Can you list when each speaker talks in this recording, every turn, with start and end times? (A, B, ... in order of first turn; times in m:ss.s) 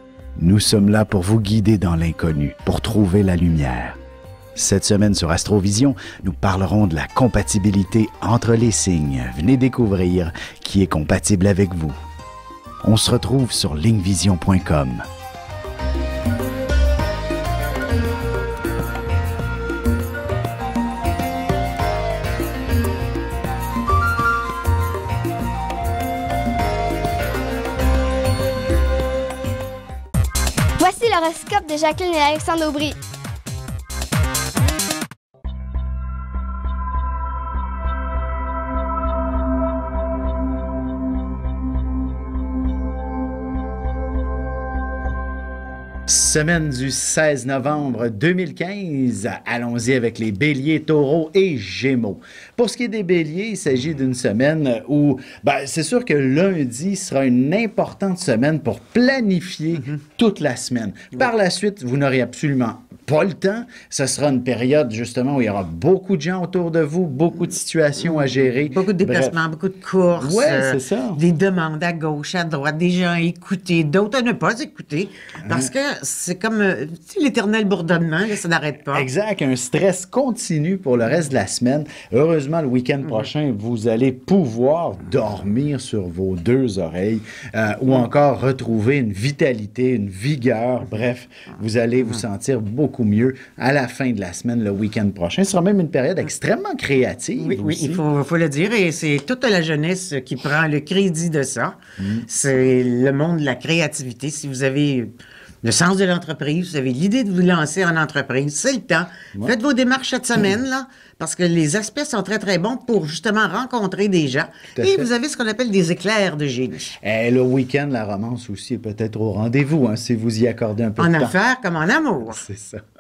0:00.4-0:04.0 A
0:04.6-0:12.0 A
0:12.8-0:15.1 A
0:30.8-0:33.0 B
0:46.1-1:09.4 A
1:08.0-1:19.1 C
1:10.1-1:11.2 A
1:15.4-1:15.7 A
1:18.9-1:38.0 A
1:37.4-1:57.0 C
1:42.0-1:42.3 A
1:54.8-1:55.1 A
1:57.0-2:01.4 A
2:01.0-2:02.4 C
2:02.2-2:02.8 A